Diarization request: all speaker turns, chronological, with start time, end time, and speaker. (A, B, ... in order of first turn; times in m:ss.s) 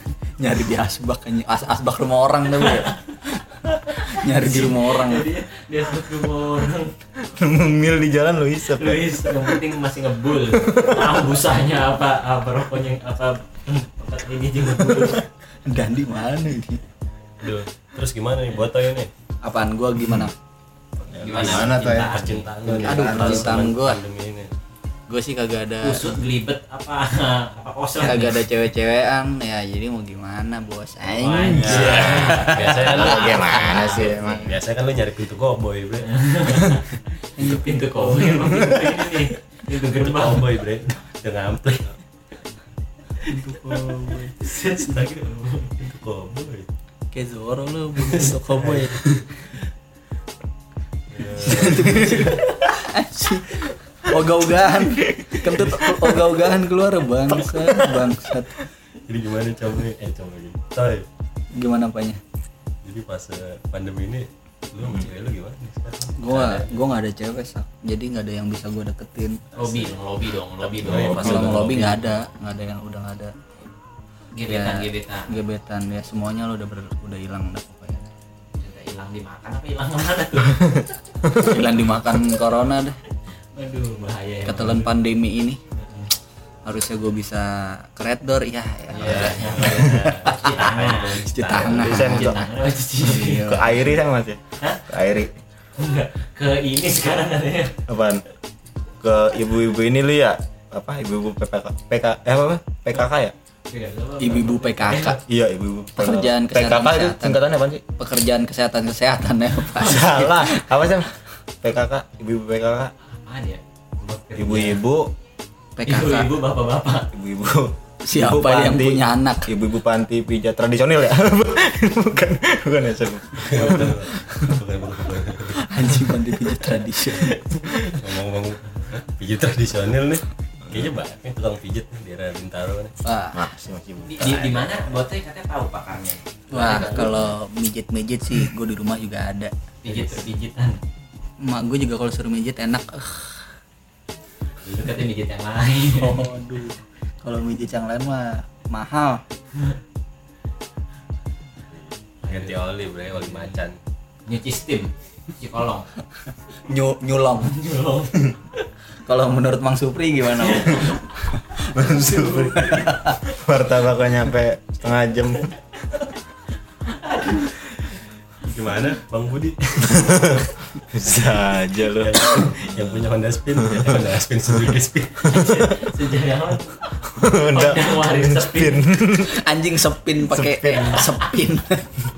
0:00.4-0:05.3 A
0:04.2-0:06.9 B
0:07.2-0:09.4 C
0:08.7-0:15.2 B
0:10.6-0:11.1 C
0:15.7-0:16.8 A
0:17.4-0:19.1 D
0:19.4-0:20.3 A
0:21.0-0:24.5 D
0:21.1-0:23.6 C
0:21.2-0:22.5 B
0:22.7-0:24.0 A
0:25.1-0:26.2 A
0:25.8-0:28.4 B
0:28.0-0:32.7 A
0:31.1-0:34.2 B
0:31.4-0:34.5 C
0:31.7-0:36.2 D
0:36.0-0:40.5 B
0:37.4-0:38.5 A
0:38.4-0:38.9 C
0:39.9-0:41.9 D
0:43.2-0:44.0 D
0:43.2-0:44.4 A
0:44.4-0:45.8 B
0:44.7-0:46.7 D
0:47.1-0:49.5 A
0:48.0-0:49.1 D
0:51.1-0:52.5 D
0:51.2-0:58.6 A
0:55.5-0:56.0 D
0:57.6-0:58.0 C
0:59.0-1:01.1 D
1:01.5-1:02.2 A
1:02.8-1:06.8 D
1:06.2-1:09.4 A
1:09.5-1:09.9 D
1:09.5-1:11.8 B
1:10.7-1:12.2 D
1:10.9-1:13.3 A
1:14.3-1:15.4 B
1:14.4-1:18.1 A
1:18.6-1:20.8 B
1:21.2-1:23.0 A
1:23.5-1:24.9 B
1:24.4-1:25.6 A
1:25.7-1:26.1 B
1:26.6-1:29.9 A
1:28.9-1:33.7 B
1:28.9-1:32.1 D
1:31.3-1:33.7 A
1:31.6-1:32.4 C
1:33.0-1:35.3 C
1:35.8-1:37.8 B
1:37.9-1:38.2 C
1:39.0-1:43.3 C
1:43.7-1:45.2 B
1:44.2-1:45.2 A
1:45.2-1:47.8 C
1:45.9-1:47.4 A
1:48.0-1:50.7 A
1:49.7-1:52.9 C
1:53.1-1:54.8 B
1:54.4-1:55.1 C
1:55.8-1:56.3 A
1:55.8-1:57.1 B
1:57.1-2:04.2 C
1:58.0-1:59.5 A
2:03.4-2:05.6 D
2:05.6-2:07.5 A
2:07.1-2:12.9 D
2:13.0-2:13.4 A
2:13.3-2:14.6 C
2:14.0-2:17.3 B
2:14.2-2:14.6 D
2:16.5-2:19.5 A
2:19.8-2:20.8 B
2:21.4-2:23.5 A
2:24.6-2:26.2 B
2:25.9-2:29.2 A
2:29.5-2:29.8 B
2:31.7-2:33.8 D
2:32.2-2:33.6 B
2:34.2-2:35.9 B
2:36.6-2:37.7 A
2:37.4-2:38.2 B
2:39.0-2:41.0 A
2:40.4-2:41.0 B
2:41.6-2:41.9 A
2:41.7-2:45.5 C
2:41.8-2:42.8 B
2:42.7-2:43.2 A
2:46.8-2:48.0 B
2:48.4-2:50.5 D
2:49.9-2:50.4 C
2:50.9-2:54.1 C
2:51.9-2:55.6 D
2:55.2-2:58.9 B
2:57.1-2:59.5 C
2:59.1-3:01.9 A
3:00.2-3:01.2 C